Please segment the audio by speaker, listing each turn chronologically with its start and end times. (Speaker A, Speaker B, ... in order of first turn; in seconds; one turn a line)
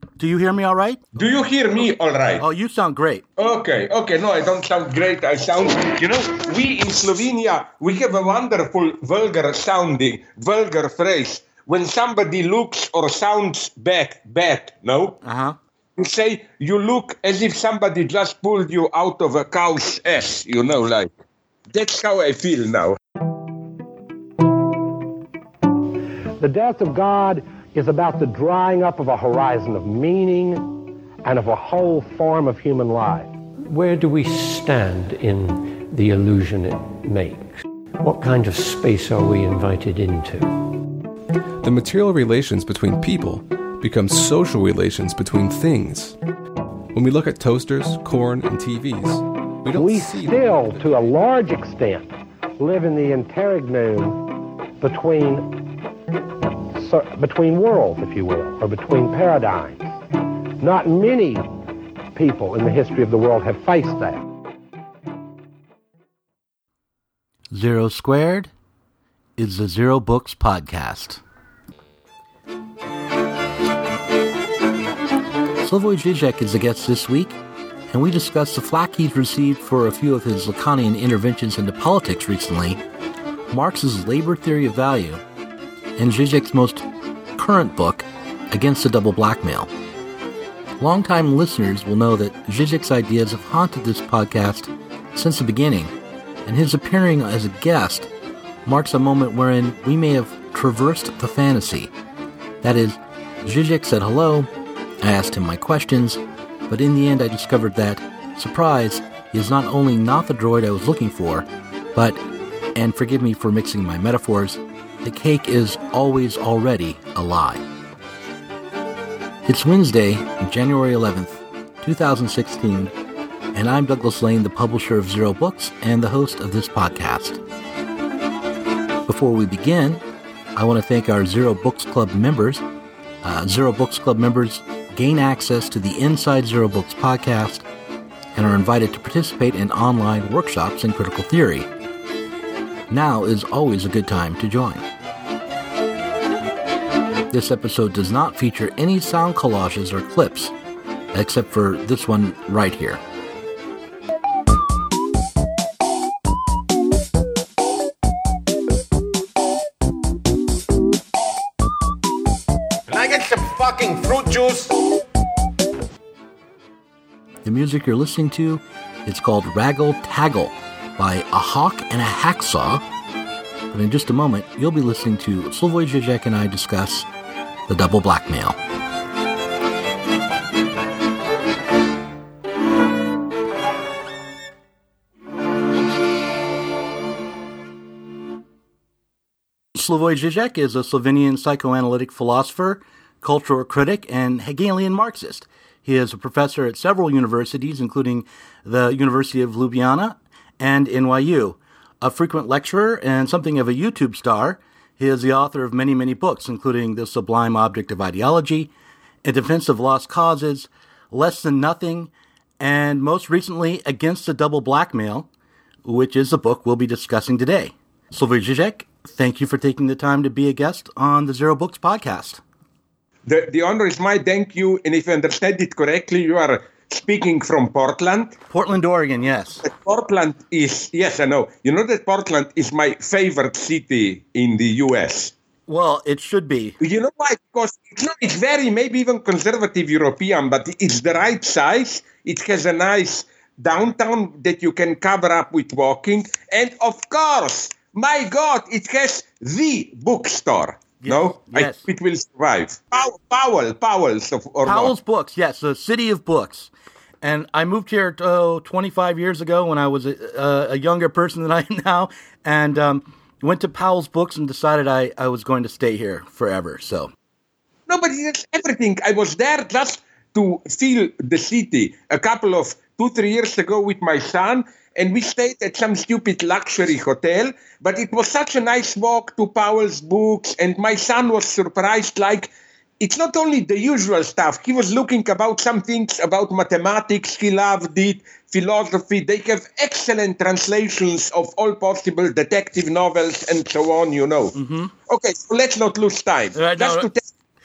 Speaker A: 0.2-1.0
Speaker B: 1.1-2.4
Speaker A: 2.4-3.2
Speaker B: 3.4-15.2
Speaker A: 15.2-15.6
Speaker B: 15.9-21.2
Speaker B: 21.7-23.0
Speaker C: 26.4-33.3
Speaker D: 33.6-40.5
Speaker E: 41.6-46.1
Speaker E: 46.9-50.9
Speaker C: 49.7-55.6
Speaker C: 56.7-59.9
Speaker C: 60.6-61.5
Speaker C: 62.1-64.2
Speaker A: 67.5-68.5
Speaker A: 69.4-71.2
Speaker A: 75.6-77.3
Speaker A: 77.9-82.8
Speaker A: 83.5-85.2
Speaker A: 86.0-86.8
Speaker A: 87.4-89.7
Speaker A: 90.8-95.9
Speaker A: 96.5-98.1
Speaker A: 98.7-101.9
Speaker A: 102.6-104.5
Speaker A: 105.0-112.2
Speaker A: 112.7-117.6
Speaker A: 119.5-122.9
Speaker A: 123.5-127.4
Speaker A: 129.1-130.0
Speaker A: 130.5-132.6
Speaker A: 133.2-137.6
Speaker A: 138.3-141.7
Speaker A: 142.9-144.8
Speaker A: 147.3-150.5
Speaker A: 151.1-153.0
Speaker B: 162.9-164.8
Speaker A: 167.4-172.8
Speaker A: 173.7-177.1
Speaker A: 177.7-178.6
Speaker A: 189.7-208.7
Speaker A: 209.2-215.3
Speaker A: 215.8-222.4
Speaker B: 223.2-228.3
Speaker A: 228.5-229.7
Speaker B: 229.6-235.3
Speaker A: 235.7-236.8
Speaker B: 236.8-254.9
Speaker A: 251.0-251.8
Speaker A: 254.6-267.1
Speaker B: 267.9-297.2
Speaker A: 294.5-294.9
Speaker A: 296.5-297.1